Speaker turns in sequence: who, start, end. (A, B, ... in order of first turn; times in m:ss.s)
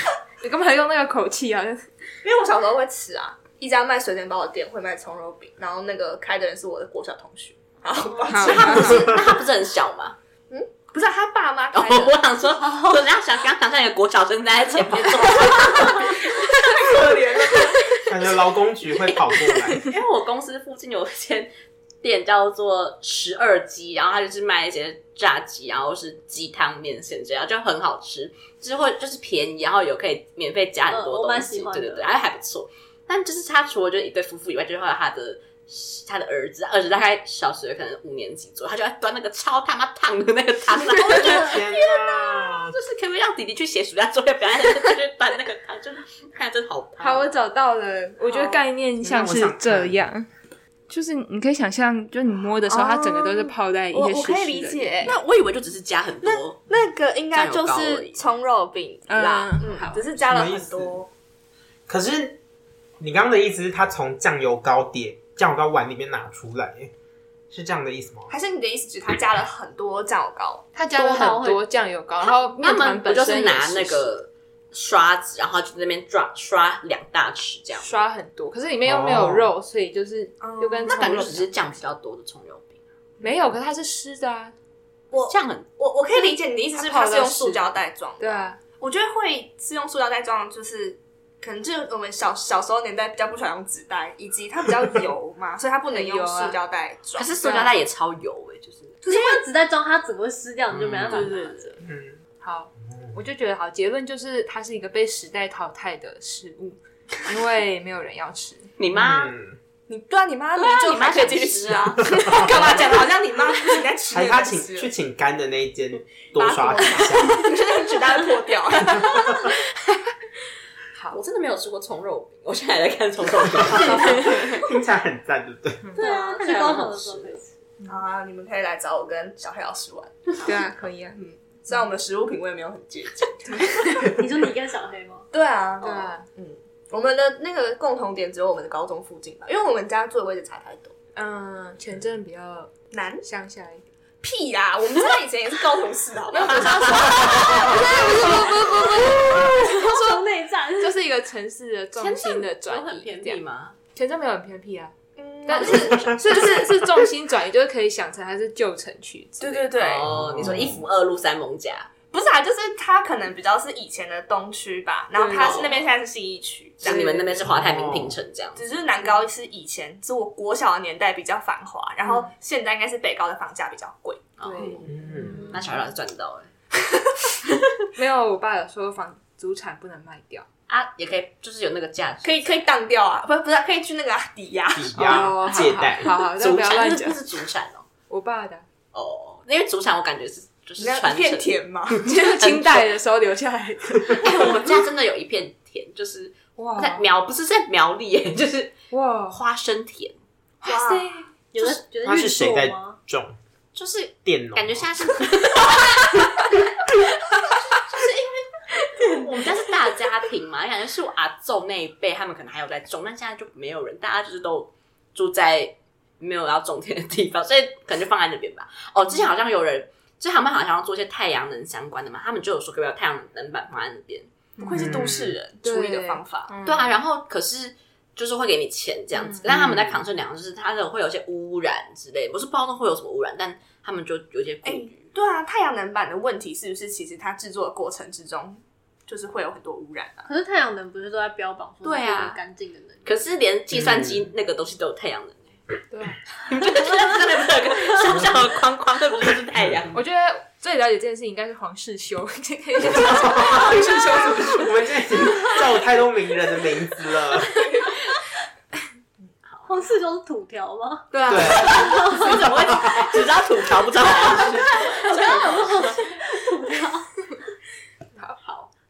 0:00.4-0:01.9 A
0:02.2-0:09.4 B
0:08.0-0:08.9 C
0:08.3-0:09.2 A
0:08.4-0:10.2 D
0:10.5-0:12.2 B
0:11.7-0:17.8 D
0:12.6-0:13.0 C
0:15.8-0:16.2 C
0:16.0-0:17.8 B
0:18.1-0:19.9 E
0:19.8-0:21.5 D
0:22.0-0:47.3 D
0:30.9-0:32.1 C
0:40.8-0:41.7 C
0:41.1-0:42.8 E
0:47.0-0:50.3 A
0:48.3-0:48.6 B
0:49.0-0:50.0 E
0:50.9-0:55.2 A
0:52.7-0:55.2 B
0:55.0-0:56.7 D
0:56.2-1:01.1 B
0:57.3-0:58.3 D
0:59.1-0:59.7 A
0:59.2-1:00.0 D
1:00.2-1:01.0 E
1:01.9-1:02.4 E
1:03.0-1:06.9 E
1:07.5-1:08.4 E
1:08.3-1:10.7 B
1:10.8-1:14.1 A
1:10.9-1:11.6 C
1:12.2-1:17.9 D
1:17.8-1:21.5 A
1:18.8-1:19.5 E
1:20.4-1:21.2 B
1:20.9-1:22.8 D
1:23.2-1:24.6 A
1:25.1-1:37.6 B
1:25.2-1:25.7 D
1:26.1-1:28.6 A
1:35.9-1:36.6 A
1:37.2-1:39.0 D
1:37.4-1:37.8 A
1:39.0-1:41.7 C
1:39.1-1:39.4 B
1:40.7-1:41.4 D
1:41.1-1:41.8 A
1:41.8-1:42.2 E
1:42.4-1:48.7 A
1:42.9-1:43.2 E
1:48.8-1:49.3 D
1:48.9-1:49.6 E
1:49.9-1:54.9 B
1:50.6-1:53.0 A
1:52.3-1:52.8 E
1:54.1-1:57.4 E
1:56.4-1:59.4 B
2:00.9-2:01.2 A
2:01.1-2:04.7 D
2:03.7-2:05.9 E
2:04.1-2:04.5 A
2:05.8-2:06.2 A
2:06.0-2:07.5 C
2:06.0-2:07.4 D
2:07.9-2:10.3 B
2:10.4-2:11.2 A
2:11.2-2:14.2 B
2:14.1-2:15.3 C
2:15.3-2:20.9 B
2:15.8-2:16.3 A
2:21.2-2:23.8 A
2:22.9-2:23.3 B
2:24.2-2:28.2 B
2:26.3-2:30.2 A
2:26.4-2:27.7 D
2:27.8-2:31.0 C
2:30.8-2:33.4 A
2:32.0-2:33.8 D
2:34.0-2:39.8 A
2:35.2-2:36.8 B
2:39.4-2:40.2 B
2:39.8-2:41.9 D
2:40.1-2:40.8 E
2:42.1-2:47.5 B
2:45.2-2:45.8 A
2:45.3-2:45.8 D
2:46.8-2:48.7 D
2:47.4-2:48.2 E
2:48.6-2:55.4 B
2:52.0-2:52.3 A
2:54.4-2:56.5 D
2:54.4-2:55.6 A
2:54.9-2:55.5 E
2:57.5-2:57.7 D
2:58.0-3:00.5 A
3:00.7-3:02.6 D
3:02.2-3:05.4 B
3:04.8-3:06.8 E
3:05.0-3:07.2 A
3:06.4-3:07.8 D
3:08.1-3:08.6 A
3:08.9-3:11.6 D
3:10.8-3:12.0 B
3:12.0-3:14.7 A
3:12.4-3:12.9 D
3:14.2-3:18.8 D
3:16.6-3:17.0 A
3:18.9-3:19.4 A
3:19.3-3:20.2 D
3:20.6-3:21.3 A
3:20.6-3:21.2 B
3:21.5-3:23.0 C
3:22.0-3:23.4 E
3:23.8-3:44.3 D
3:24.2-3:25.2 E
3:44.6-3:46.9 A
3:44.6-3:46.6 B
3:44.8-3:45.4 E
3:46.6-3:55.1 D
3:49.2-3:49.4 A
3:49.4-3:50.0 E
3:54.6-4:00.3 B
4:00.3-4:03.1 C
4:01.8-4:02.4 D
4:03.0-4:05.6 D
4:03.7-4:04.3 E
4:05.9-4:06.2 A
4:06.5-4:10.0 D
4:06.8-4:07.2 C
4:09.6-4:10.0 E
4:09.9-4:14.7 A
4:12.8-4:17.7 E
4:19.7-4:22.5 C
4:21.1-4:22.0 A
4:21.2-4:26.1 D
4:21.3-4:23.1 E
4:24.4-4:27.1 C